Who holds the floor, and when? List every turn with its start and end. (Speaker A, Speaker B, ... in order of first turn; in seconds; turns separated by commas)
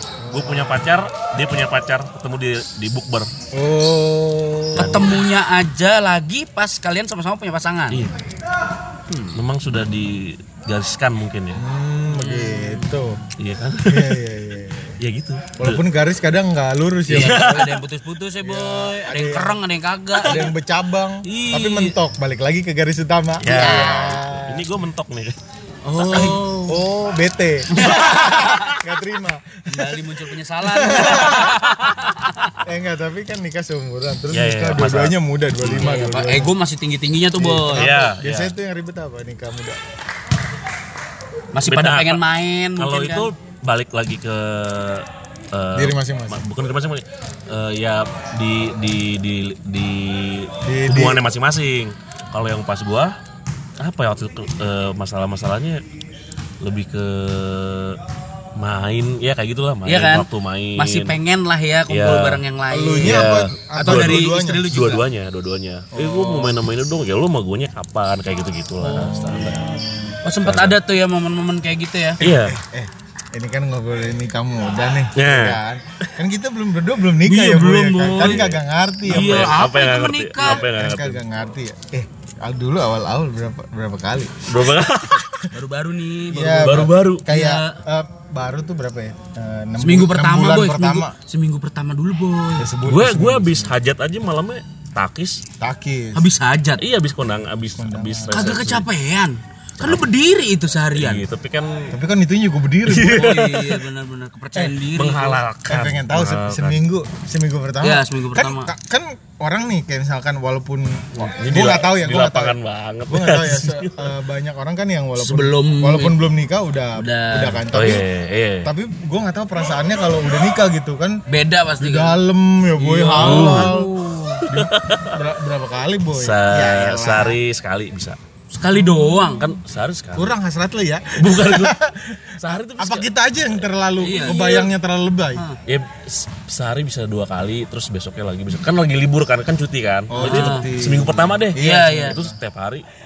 Speaker A: 0.2-0.8, Speaker B: 0.3-3.3, Speaker A: 3.5-5.1, Speaker B: 4.8-5.1, Speaker C: 4.8-8.0, Speaker C: 9.1-9.4, Speaker B: 9.3-11.6, Speaker A: 11.6-13.2, Speaker C: 12.1-13.0, Speaker B: 13.4-14.2, Speaker A: 13.9-15.0, Speaker B: 15.0-15.8, Speaker A: 15.6-17.6, Speaker C: 17.1-20.5, Speaker B: 17.1-17.8, Speaker A: 18.4-19.6, Speaker A: 20.2-24.7, Speaker C: 21.2-22.0, Speaker B: 23.4-25.4, Speaker C: 23.5-24.0, Speaker C: 25.9-26.9, Speaker A: 26.0-30.0, Speaker C: 27.7-28.7, Speaker C: 29.7-32.3, Speaker A: 30.6-31.6, Speaker A: 32.6-36.5, Speaker B: 34.3-35.9, Speaker C: 35.7-37.9, Speaker A: 37.4-39.8, Speaker B: 37.7-38.5, Speaker C: 41.5-43.3, Speaker B: 41.6-42.2, Speaker B: 42.8-53.2, Speaker A: 45.8-46.4, Speaker A: 50.6-51.2, Speaker B: 53.8-55.8, Speaker B: 56.6-58.0, Speaker B: 58.6-61.2, Speaker C: 59.9-65.0, Speaker B: 61.9-62.4, Speaker A: 62.7-64.7, Speaker B: 63.0-69.6, Speaker A: 65.9-66.6, Speaker A: 68.8-70.2, Speaker C: 70.2-72.2, Speaker B: 70.4-70.8, Speaker B: 72.2-72.6, Speaker A: 72.2-79.6, Speaker B: 75.2-76.1, Speaker C: 77.2-78.4, Speaker B: 78.2-81.2, Speaker C: 79.1-80.6, Speaker A: 80.4-85.3, Speaker B: 84.5-85.5, Speaker C: 85.5-87.8, Speaker A: 86.3-91.2, Speaker B: 86.6-87.3, Speaker C: 89.8-92.7, Speaker A: 92.6-93.7, Speaker B: 92.8-95.4, Speaker A: 95.6-96.2, Speaker C: 96.2-96.8, Speaker B: 96.8-98.9, Speaker A: 97.8-98.5, Speaker C: 98.3-101.2, Speaker B: 100.9-101.9, Speaker A: 101.9-103.5, Speaker C: 102.9-105.4, Speaker B: 103.0-103.8, Speaker B: 104.9-106.8, Speaker A: 105.7-112.6, Speaker C: 107.8-108.7, Speaker B: 111.2-114.1, Speaker A: 113.1-118.1, Speaker C: 115.2-116.2, Speaker C: 117.0-117.7, Speaker B: 117.7-118.7, Speaker A: 118.6-121.2, Speaker C: 121.3-122.2, Speaker A: 121.8-127.4, Speaker C: 122.8-124.4, Speaker B: 123.2-123.8, Speaker B: 124.5-125.2, Speaker B: 126.2-128.2, Speaker C: 128.5-129.5, Speaker B: 129.4-130.3, Speaker A: 130.2-135.4, Speaker B: 131.2-131.8, Speaker B: 132.4-134.6, Speaker C: 134.0-134.7, Speaker B: 135.7-142.8, Speaker A: 140.1-142.4, Speaker C: 140.2-140.7, Speaker C: 141.6-142.2